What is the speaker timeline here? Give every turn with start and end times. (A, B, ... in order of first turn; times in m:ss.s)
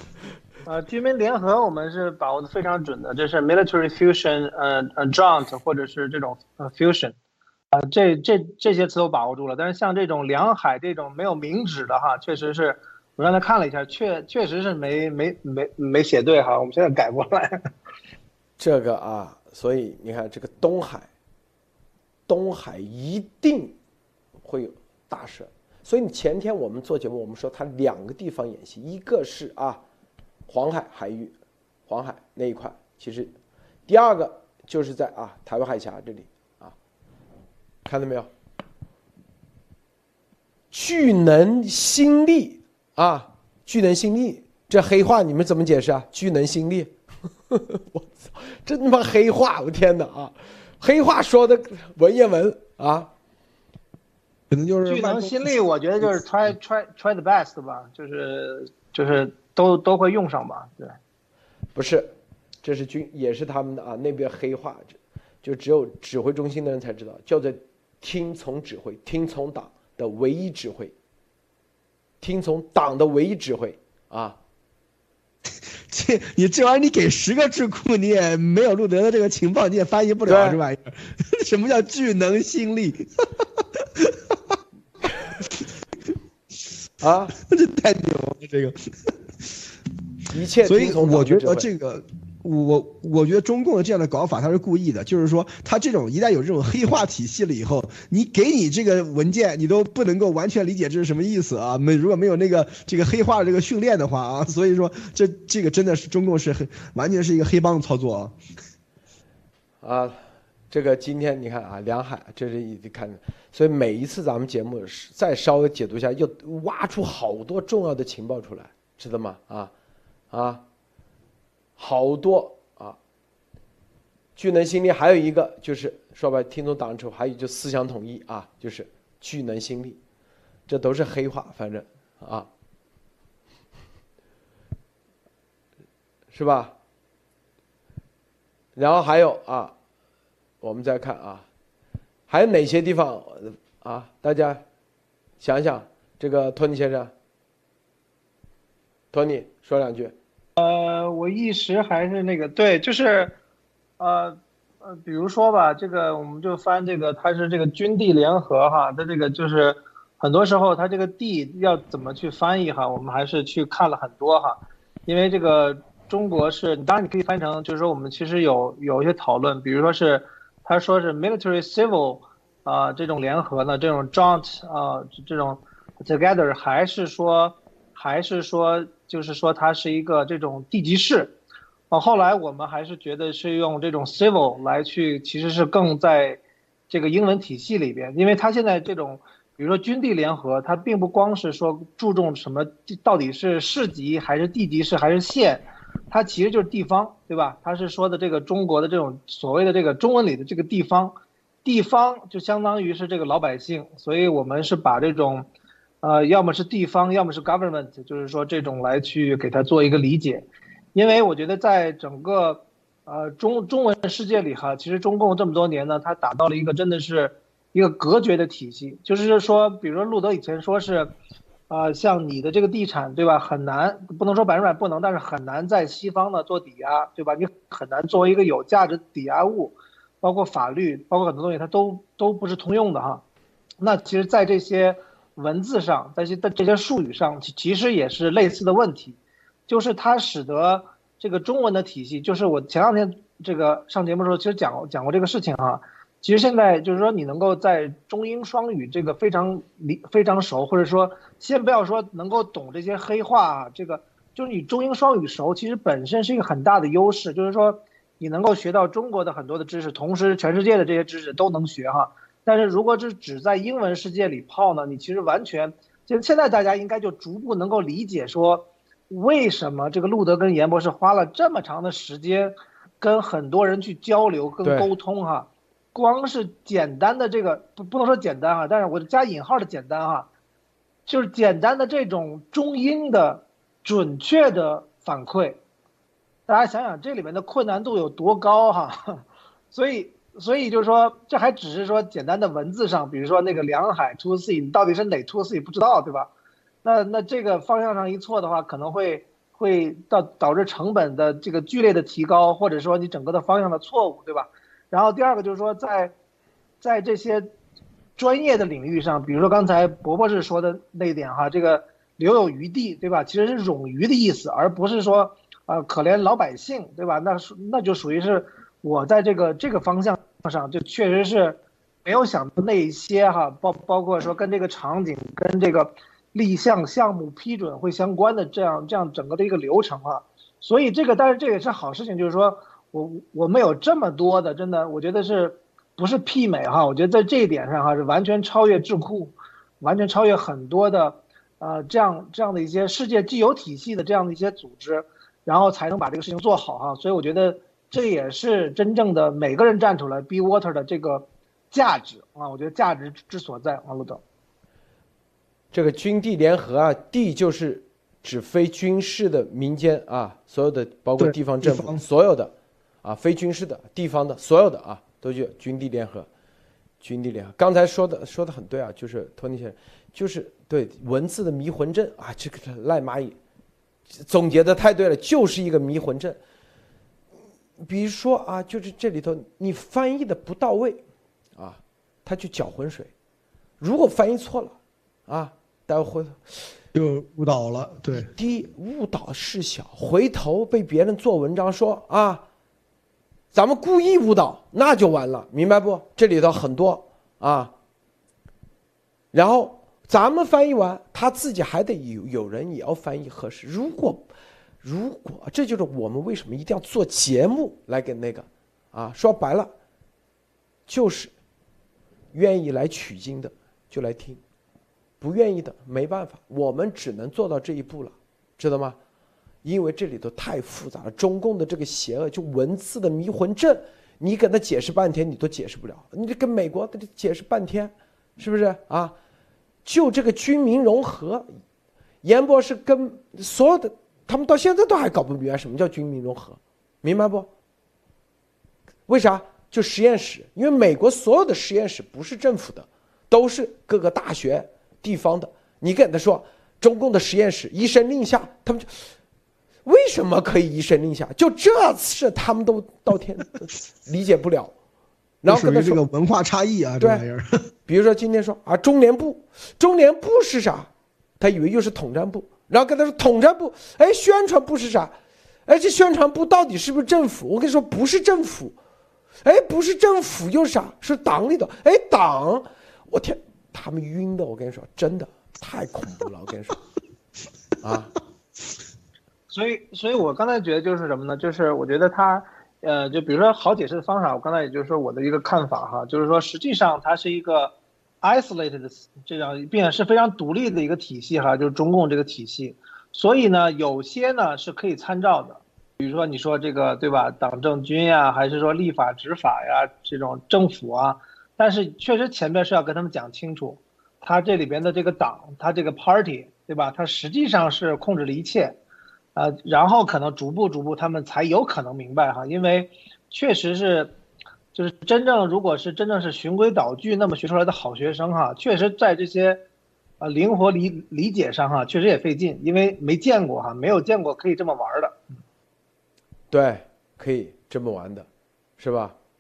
0:00.6-0:07.2 A
0:07.7-0:17.7 A
0:18.6-0:21.1 B
0:22.3-0:23.8 B
0:24.4-0:29.8 B
0:30.5-0:31.3 B
0:31.9-0:33.3 B
0:33.9-0:36.7 B
0:37.8-0:38.3 B
0:40.7-0:46.9 B
0:47.5-0:53.1 B
0:54.5-0:56.1 C
0:54.9-1:01.0 A
1:01.8-1:02.1 B
1:02.6-1:10.9 B
1:12.2-1:14.4 B
1:15.9-1:24.4 C
1:20.3-1:20.6 B
1:27.0-1:27.3 B
1:27.3-1:29.1 C
1:30.3-1:31.7 B
1:30.6-1:48.4 C
1:49.8-1:50.2 B
1:50.7-1:59.7 B
2:00.3-2:00.6 B
2:01.8-2:03.0 B
2:04.4-2:10.0 B
2:10.7-2:12.5 B
2:16.3-2:16.7 B
2:18.8-2:19.7 B
2:20.6-2:21.4 B
2:22.3-2:24.6 B
2:25.4-2:27.1 B
2:29.1-2:30.1 B
2:30.6-2:33.4 A
2:34.0-3:01.4 A
3:01.9-3:25.5 A
3:26.0-3:41.1 A
3:41.7-3:53.2 A
3:53.8-4:40.3 A
4:34.6-4:34.9 B
4:41.1-4:45.6 A
4:46.5-4:56.3 A
4:56.8-5:06.1 A
5:06.8-5:07.5 A
5:08.2-5:54.2 A
5:55.7-6:02.5 B
6:01.2-6:02.0 C
6:03.0-6:06.3 B
6:07.0-6:13.4 B
6:14.1-6:16.4 B
6:17.8-6:21.0 B
6:21.6-6:23.1 B
6:23.8-6:24.8 B
6:25.3-6:26.6 B
6:26.9-6:28.3 C
6:28.1-6:32.4 B
6:33.5-6:37.7 B
6:39.3-6:44.3 B
6:44.8-6:49.7 B
6:50.9-6:51.3 B
6:52.3-6:54.4 B
6:55.2-6:59.0 B
6:59.6-7:09.2 B
7:09.8-7:11.5 B
7:12.2-7:17.5 B
7:19.1-7:28.9 B
7:29.8-7:34.7 B
7:35.4-7:36.0 B
7:35.5-7:37.5 C
7:37.9-7:45.1 B
7:45.7-7:48.8 B
7:49.4-7:56.8 B
7:57.8-7:58.1 B
7:59.5-8:28.8 A
8:29.4-8:34.1 A
8:34.7-8:39.6 A
8:40.2-8:45.2 A
8:46.5-8:48.3 B
8:48.8-8:49.2 B